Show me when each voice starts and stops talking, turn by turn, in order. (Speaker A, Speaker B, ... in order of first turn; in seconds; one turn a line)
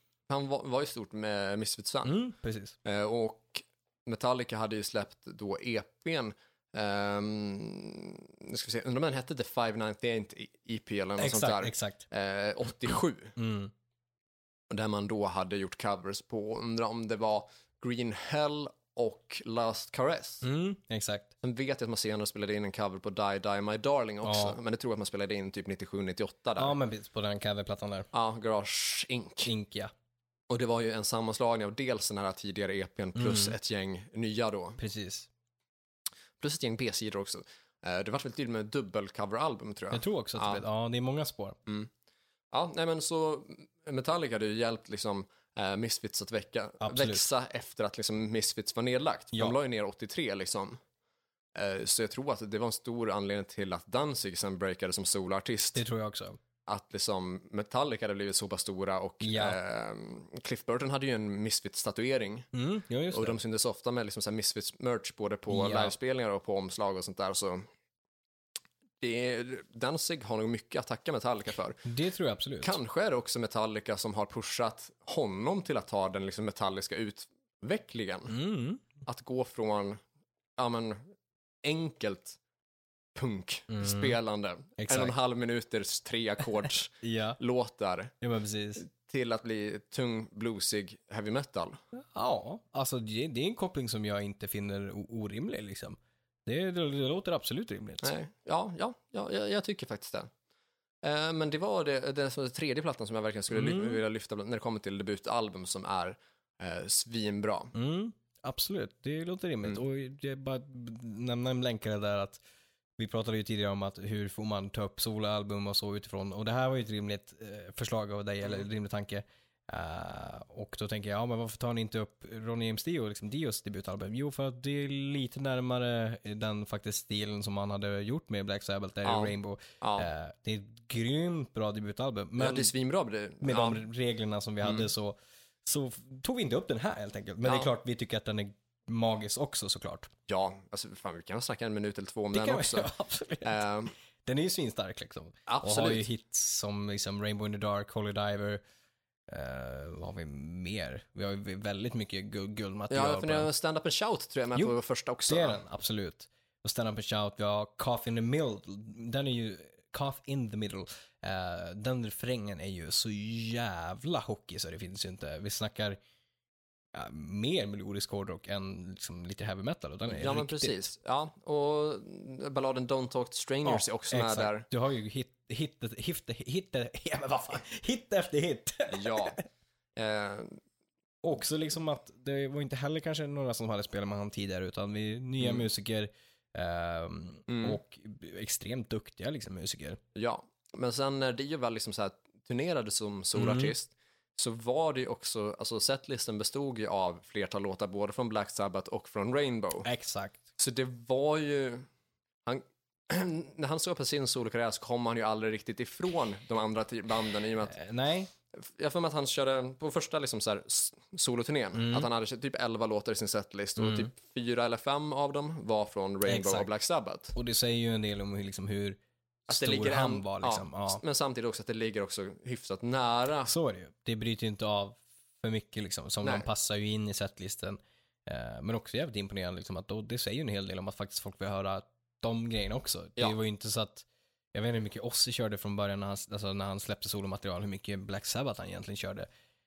Speaker A: 0.3-2.2
Speaker B: 2.0-2.8
Speaker A: 2.9-13.4
Speaker B: 11.2-12.1
Speaker B: 13.4-13.7
Speaker A: 14.7-20.5
Speaker B: 20.4-21.3
Speaker A: 21.4-26.8
Speaker B: 24.2-24.6
Speaker B: 26.6-28.1
Speaker A: 28.1-29.5
Speaker B: 29.4-29.9
Speaker A: 30.5-34.8
Speaker B: 33.2-33.6
Speaker B: 34.8-35.3
Speaker A: 36.4-40.6
Speaker B: 39.9-41.6
Speaker A: 42.5-50.8
Speaker B: 46.8-47.2
Speaker A: 51.5-55.8
Speaker B: 55.8-56.4
Speaker A: 56.7-62.5
Speaker B: 59.2-59.6
Speaker B: 62.5-63.4
Speaker A: 63.1-67.7
Speaker B: 65.5-65.9
Speaker A: 69.0-71.8
Speaker B: 71.8-72.8
Speaker A: 72.6-78.3
Speaker B: 78.3-78.9
Speaker A: 79.0-80.0
Speaker A: 80.6-81.0
Speaker A: 81.6-82.4
Speaker A: 83.2-88.1
Speaker B: 83.7-84.2
Speaker B: 84.8-85.1
Speaker B: 87.0-87.4
Speaker B: 88.2-88.8
Speaker A: 88.8-91.8
Speaker B: 91.9-98.1
Speaker A: 98.0-100.3
Speaker A: 101.0-107.8
Speaker B: 103.5-104.0
Speaker B: 107.7-112.4
Speaker B: 113.0-132.7
Speaker A: 129.1-130.1
Speaker A: 132.4-133.8
Speaker B: 133.4-140.1
Speaker A: 134.6-134.9
Speaker A: 137.4-137.7
Speaker A: 140.3-142.9
Speaker B: 142.3-143.6
Speaker A: 143.4-143.9
Speaker B: 144.2-148.6
Speaker A: 145.5-146.1
Speaker B: 149.3-153.5
Speaker A: 152.9-155.6
Speaker B: 155.3-166.0
Speaker B: 166.9-170.8
Speaker A: 170.1-174.7
Speaker B: 173.7-179.4
Speaker A: 178.9-179.4
Speaker A: 180.0-180.6
Speaker B: 181.2-190.0
Speaker A: 185.4-185.7
Speaker A: 187.5-187.8
Speaker A: 190.2-199.9
Speaker B: 193.4-193.7
Speaker B: 199.8-200.4
Speaker A: 200.6-201.9
Speaker A: 202.5-207.8
Speaker B: 207.7-208.3
Speaker A: 208.6-217.3
Speaker B: 211.8-212.1
Speaker B: 213.8-214.1
Speaker B: 216.2-216.7
Speaker B: 217.3-221.0
Speaker A: 219.5-223.5
Speaker B: 223.5-239.3